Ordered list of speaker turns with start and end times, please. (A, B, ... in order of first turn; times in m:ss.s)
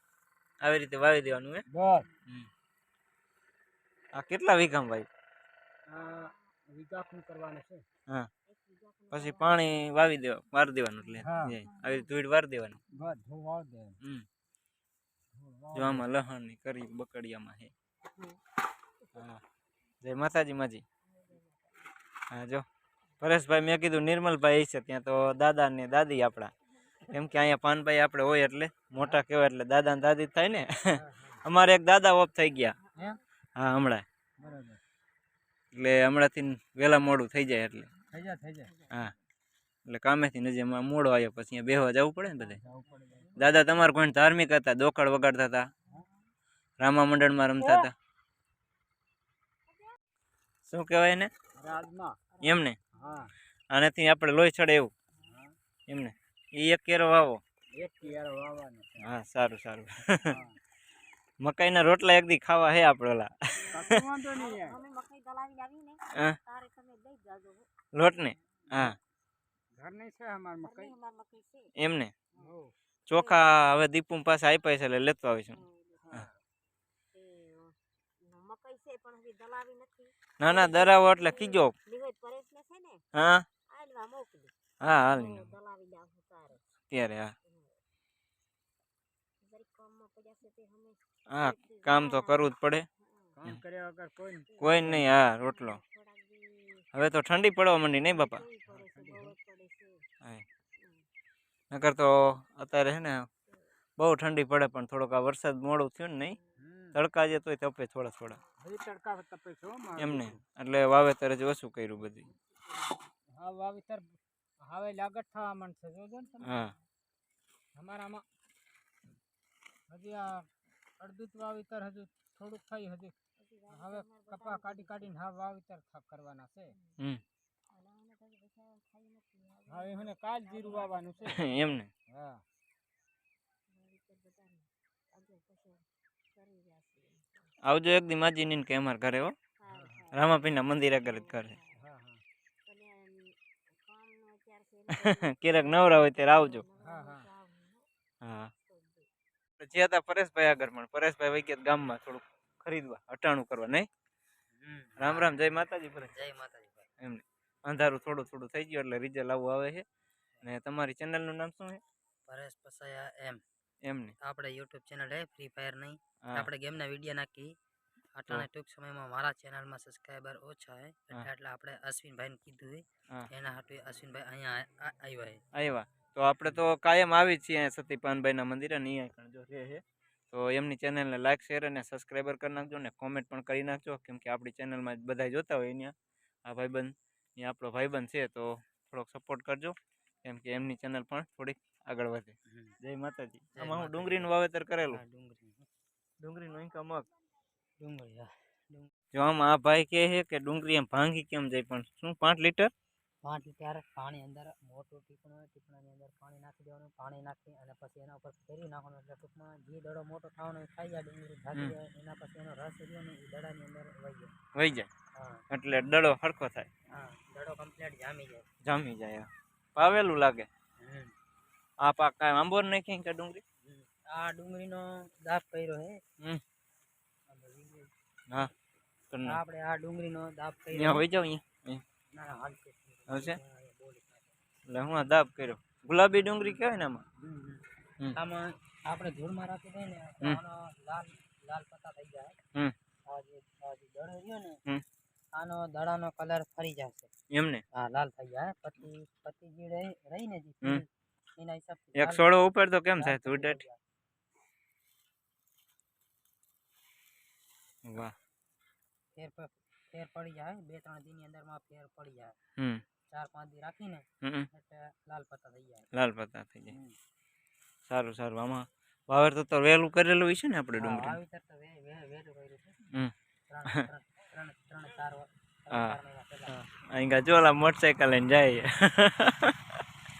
0:00.6-0:01.6 A
0:01.7-0:02.1 B
0:04.1-0:05.1 A
0:05.9-0:07.8 B
0:08.5-0:09.7 C
0:09.1-0:12.8 A
0:11.2-0:11.6 B
0:12.9-0:14.0 B
0:15.3-0:16.1 B
0:15.7-0:17.7 A
0:19.1-0:19.4 A
0:20.0-0:20.8 A
0:21.1-0:21.9 C
0:22.3-0:22.6 A
0:23.2-0:26.5 A
0:27.1-0:32.8 A
0:31.0-0:31.4 B
0:33.0-0:33.2 B
0:33.6-0:34.0 A
0:34.4-0:34.8 B
0:35.7-0:37.9 A
0:38.1-0:38.7 B
0:39.9-0:42.6 A
0:42.5-0:43.4 B
0:43.4-0:45.6 A
0:46.8-0:47.9 A
0:50.6-0:51.3 A
0:51.5-0:52.2 B
0:52.4-0:52.8 A
0:53.0-0:53.3 B
0:53.7-0:54.9 A
0:55.3-0:55.5 B
0:55.9-0:57.4 A
0:57.7-0:59.1 B
0:59.0-1:00.4 A
1:00.3-1:00.6 B
1:01.4-1:04.0 A
1:03.6-1:07.7 C
1:03.7-1:04.8 B
1:07.9-1:09.0 A
1:09.7-1:10.9 B
1:10.6-1:11.7 C
1:11.8-1:12.1 A
1:12.4-1:12.7 B
1:13.1-1:15.6 A
1:13.1-1:13.4 C
1:15.5-1:16.1 C
1:16.0-1:16.3 B
1:17.1-1:23.0 C
1:20.4-1:21.7 A
1:23.1-1:23.4 A
1:23.7-1:24.5 C
1:24.8-1:25.5 A
1:25.1-1:26.6 C
1:26.9-1:27.3 A
1:27.4-1:27.7 C
1:29.4-1:32.5 C
1:31.3-1:32.8 A
1:33.0-1:33.4 C
1:33.3-1:35.1 B
1:34.5-1:36.8 C
1:34.6-1:35.8 A
1:36.9-1:38.4 A
1:37.9-1:40.0 C
1:38.7-1:39.3 B
1:40.8-1:41.0 C
1:41.7-1:43.3 A
1:44.0-1:46.4 A
1:46.6-1:47.0 B
1:46.9-1:48.4 A
1:48.6-1:50.4 B
1:50.0-1:52.3 A
1:52.5-1:52.9 C
1:53.3-1:56.6 B
1:56.4-1:56.7 A
1:57.7-1:58.2 B
1:59.9-2:00.5 B
2:01.0-2:03.1 B
2:03.4-2:05.2 C
2:03.7-2:06.8 B
2:07.7-2:11.5 C
2:09.7-2:11.4 B
2:11.3-2:11.9 A
2:12.1-2:12.4 B
2:13.7-2:17.5 C
2:17.6-2:19.3 A
2:19.6-2:20.3 C
2:19.7-2:20.1 B
2:20.1-2:21.6 A
2:21.0-2:21.8 C
2:21.7-2:22.2 B
2:22.6-2:27.8 C
2:25.0-2:26.6 A
2:26.8-2:27.3 B
2:28.2-2:28.5 A
2:28.7-2:29.1 C
2:29.6-2:33.9 A
2:34.6-2:35.4 D
2:35.0-2:36.1 A
2:36.1-2:36.9 D
2:37.0-2:39.8 A
2:40.4-2:41.8 A
2:42.3-2:43.4 D
2:43.8-2:44.1 A
2:44.2-2:47.5 D
2:48.1-2:55.4 D
2:55.5-3:15.0 A
3:12.5-3:12.7 D
3:13.6-3:14.3 D
3:14.8-3:15.7 D
3:16.2-3:17.1 A
3:17.8-3:18.9 D
3:19.1-3:22.7 A
3:23.2-3:34.3 D
3:34.5-3:34.9 A
3:35.1-3:35.4 D
3:35.5-3:36.7 A
3:36.9-3:38.4 D
3:38.6-3:40.5 A
3:40.8-3:41.1 D
3:41.8-3:43.4 A
3:43.6-3:46.0 D
3:47.3-3:47.9 D
3:49.1-3:49.4 A
3:49.2-3:51.0 D
3:50.7-3:51.8 A
3:52.1-3:54.4 D
3:53.1-3:53.4 A
3:54.7-3:57.0 A
3:57.2-3:57.6 D
3:58.2-4:02.3 D
4:03.0-4:04.6 D
4:05.3-4:07.1 D
4:07.3-4:07.6 A
4:07.7-4:10.8 D
4:11.4-4:12.3 D
4:11.9-4:13.6 A
4:12.9-4:13.8 D
4:17.8-4:18.1 A
4:19.1-4:22.3 D
4:22.6-4:22.8 A
4:23.1-4:25.9 D
4:24.2-4:24.5 A
4:25.9-4:26.8 A
4:26.7-4:26.9 D
4:27.9-4:31.2 A
4:30.7-4:32.8 D
4:33.5-4:36.5 D
4:35.7-4:36.0 A
4:36.5-4:39.6 A